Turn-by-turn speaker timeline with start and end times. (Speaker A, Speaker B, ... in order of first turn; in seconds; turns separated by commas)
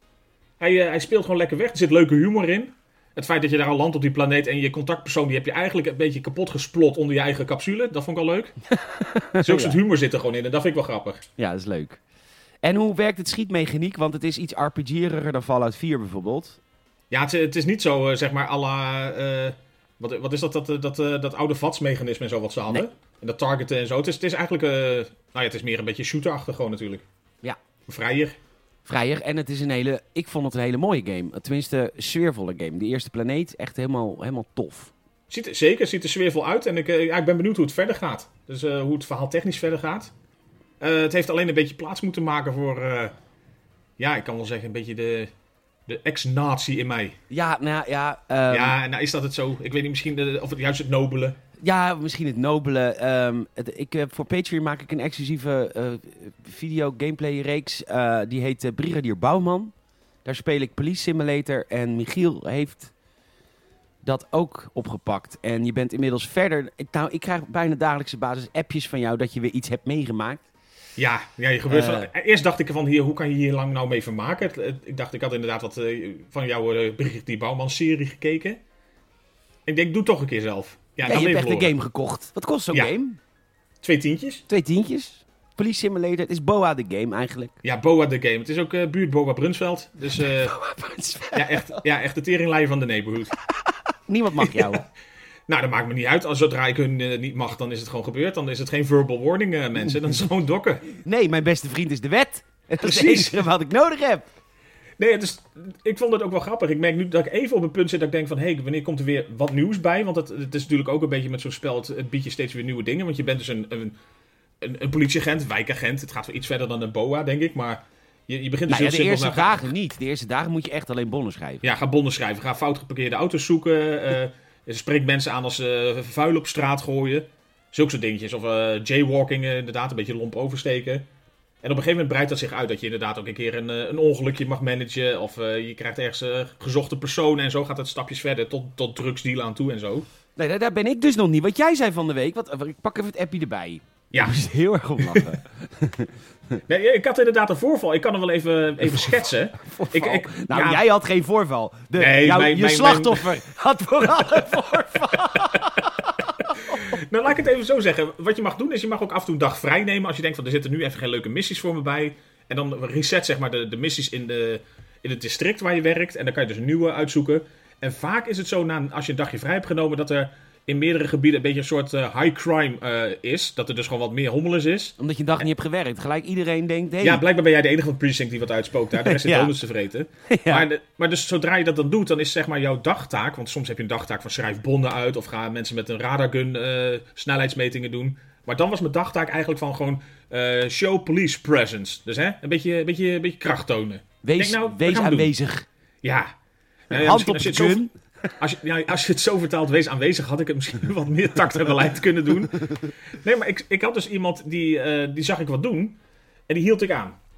Speaker A: 0.6-8.5, Speaker B: 8.7-9.8, Speaker A: 9.4-11.2, Speaker B: 11.4-12.0, Speaker B: 12.6-16.6, Speaker A: 17.1-27.0, Speaker A: 27.9-28.4, Speaker B: 28.9-34.9, Speaker A: 35.3-40.1, Speaker A: 40.8-43.1, Speaker A: 44.0-45.3, Speaker A: 45.9-47.2, Speaker B: 47.3-48.8, Speaker A: 48.5-51.4, Speaker B: 51.6-59.7, Speaker B: 60.2-62.9, Speaker B: 64.0-70.4, Speaker A: 71.0-78.6, Speaker B: 71.7-72.1, Speaker A: 79.7-81.7, Speaker B: 81.0-83.2, Speaker A: 83.8-84.4, Speaker B: 84.5-87.6, Speaker A: 87.6-90.5, Speaker B: 90.2-91.8, Speaker A: 91.3-93.3, Speaker B: 94.1-94.8, Speaker A: 94.4-94.8, Speaker A: 95.5-100.8, Speaker B: 101.0-104.3, Speaker A: 102.8-103.5, Speaker A: 105.0-114.0, Speaker A: 114.6-119.7, Speaker B: 118.7-121.6, Speaker A: 121.6-131.0, Speaker A: 131.6-140.1, Speaker B: 140.3-146.6, Speaker A: 144.1-144.4, Speaker A: 145.0-145.4, Speaker A: 146.7-150.8, Speaker B: 149.6-157.0, Speaker A: 152.0-153.4, Speaker A: 154.2-155.8, Speaker A: 156.5-174.9, Speaker B: 175.0-177.2, Speaker A: 177.0-195.3, Speaker B: 179.0-179.5, Speaker B: 180.3-180.7, Speaker B: 194.2-195.7, Speaker A: 196.0-196.3, Speaker A: 196.9-197.8, Speaker B: 196.9-198.3, Speaker A: 198.4-206.0, Speaker A: 206.5-207.2